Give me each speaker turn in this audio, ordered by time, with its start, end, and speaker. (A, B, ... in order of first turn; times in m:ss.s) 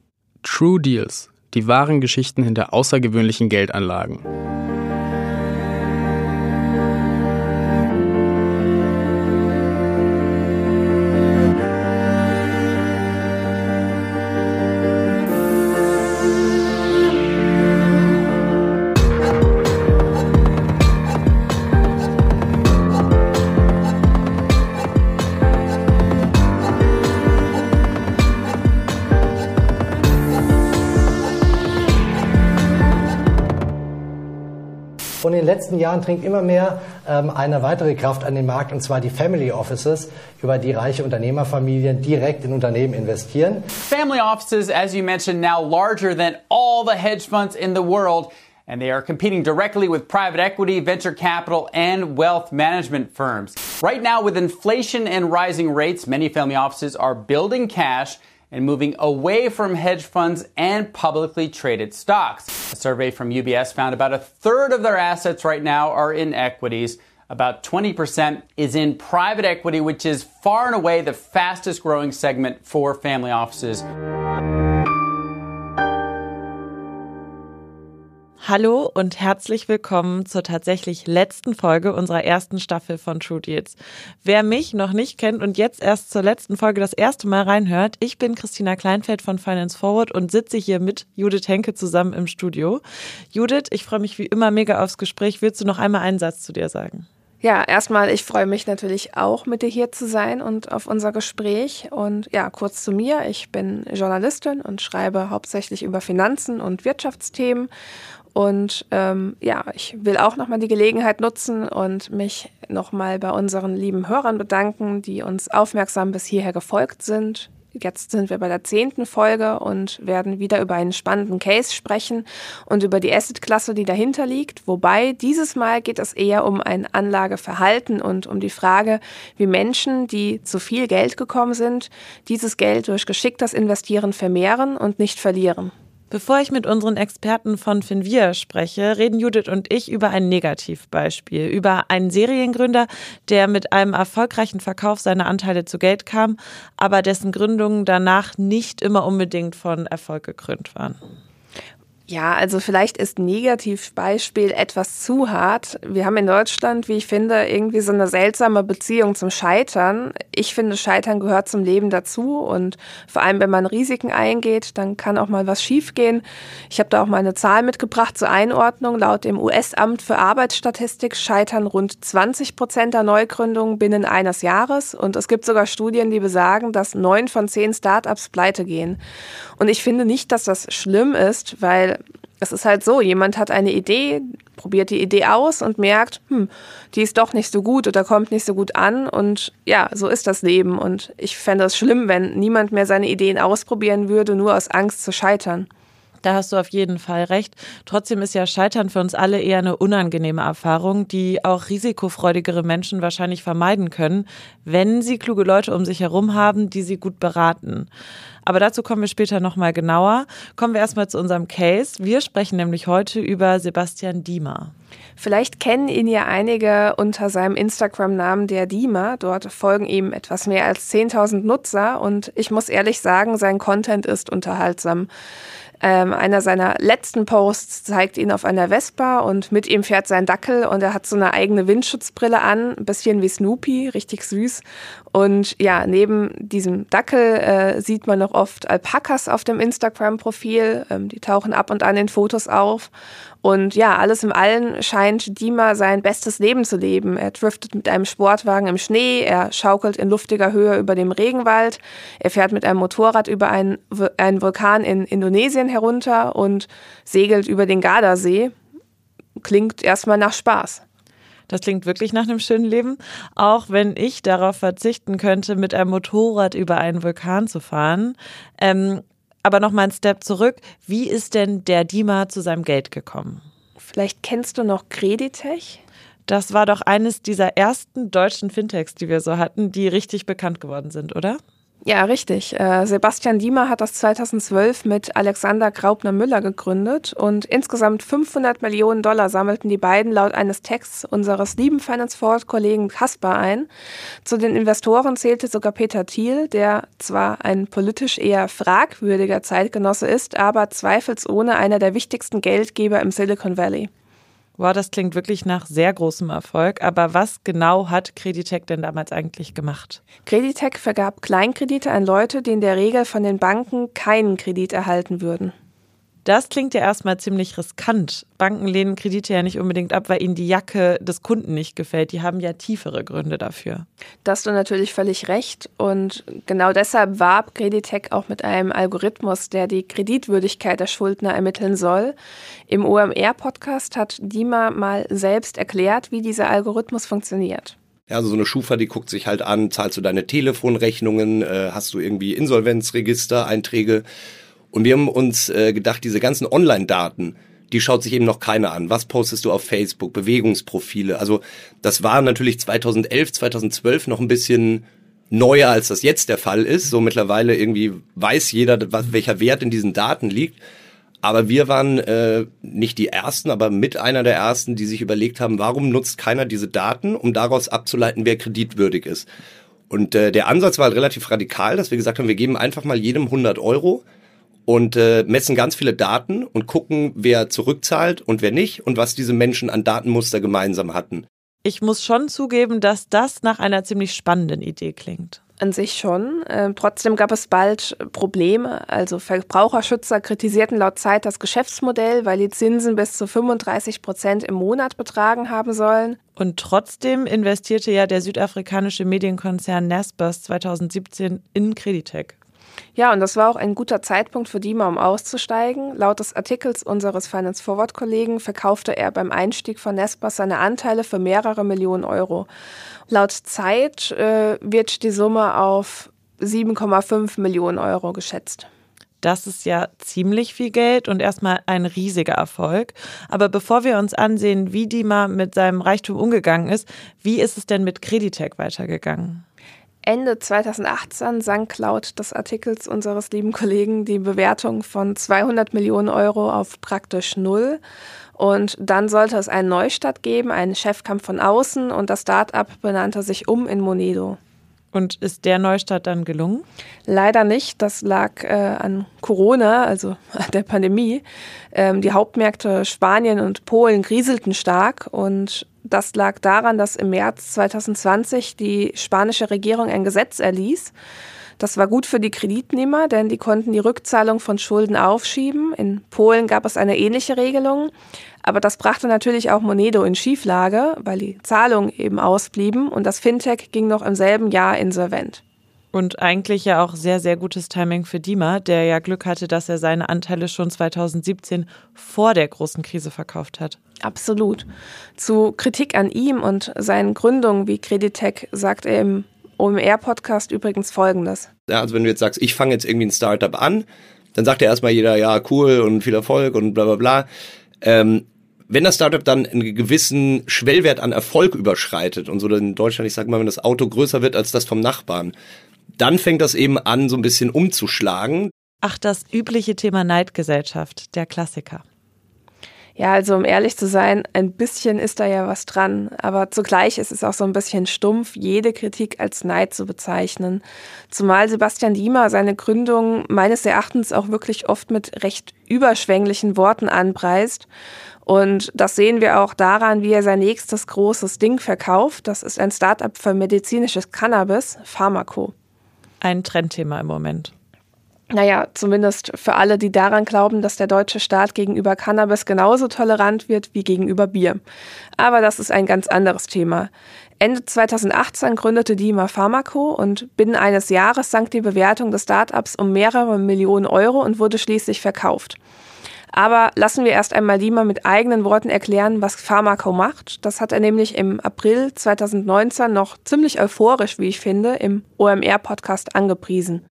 0:00.4-0:04.2 A
0:35.2-0:43.7 B
0:43.8-1:13.9 C
1:18.4-1:32.8 D
1:33.3-1:37.0 D
1:37.4-1:47.7 E
1:48.3-2:15.7 E
2:16.1-2:31.0 D
2:32.1-2:59.0 E
2:59.6-3:15.7 E
3:16.2-3:27.9 D
3:28.4-3:34.7 D
3:35.2-3:45.1 E
3:45.8-3:54.6 E
3:55.1-4:02.9 E
4:03.4-4:18.5 E
4:19.4-4:20.8 E
4:21.5-4:33.4 D
4:33.9-4:35.8 E
4:36.3-4:41.4 D
4:41.8-4:53.7 E
4:54.2-5:03.9 E
5:04.6-5:10.0 D
5:10.2-5:15.5 E
5:16.2-5:23.9 D
5:24.2-5:32.2 E
5:32.7-5:37.8 E
5:38.1-5:44.0 F
5:44.7-6:00.6 F
6:01.2-6:09.2 F
6:09.9-6:14.0 F
6:14.7-6:21.2 F
6:21.6-6:25.4 D
6:25.6-6:36.2 E
6:36.4-6:42.3 D
6:43.0-6:52.5 E
6:53.1-6:58.7 E
6:59.2-7:09.4 D
7:10.0-7:17.8 E
7:18.4-7:24.4 E
7:24.9-7:26.6 D
7:27.1-7:40.9 E
7:41.6-7:47.9 E
7:48.4-7:55.4 E
7:55.9-8:03.8 D
8:04.0-8:11.5 E
8:11.7-8:17.3 F
8:17.8-8:25.3 F
8:26.0-8:28.5 F
8:28.8-8:31.8 D
8:33.0-8:47.7 E
8:48.2-8:55.5 E
8:56.2-8:57.5 D
8:58.3-9:04.6 E
9:05.2-9:15.6 E
9:16.3-9:26.8 E